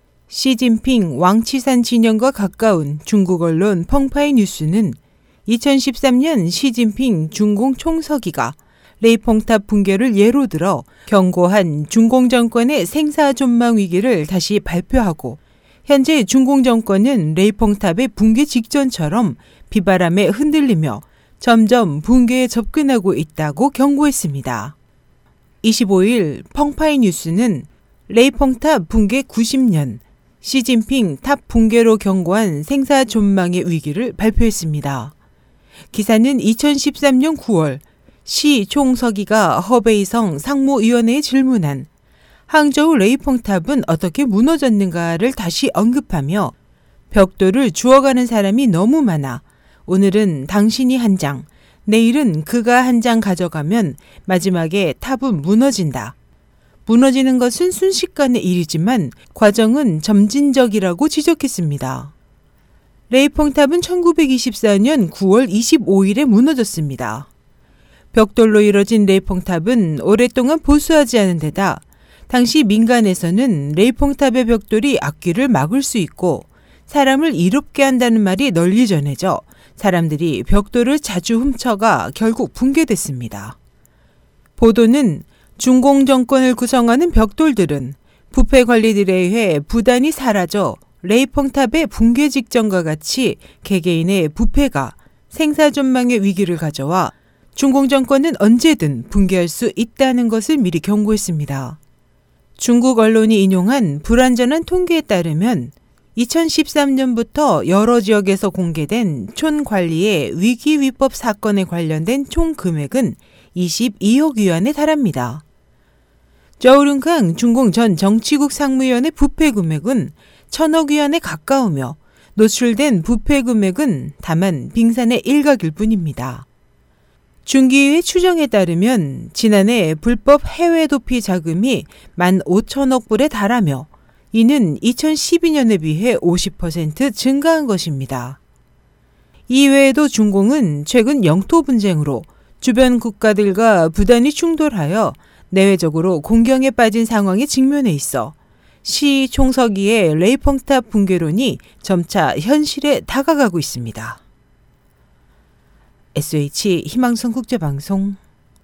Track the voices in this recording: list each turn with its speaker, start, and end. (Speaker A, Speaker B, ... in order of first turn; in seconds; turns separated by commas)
Speaker A: 0.3-24.8, Speaker A: 25.6-35.1, Speaker A: 35.9-41.9, Speaker A: 42.5-46.5, Speaker A: 47.1-56.1, Speaker A: 56.9-62.1, Speaker A: 63.1-67.3, Speaker A: 68.1-83.6, Speaker A: 84.6-101.8, Speaker A: 102.6-115.4, Speaker A: 116.6-126.5, Speaker A: 127.5-138.4, Speaker A: 139.5-154.2, Speaker A: 156.1-158.2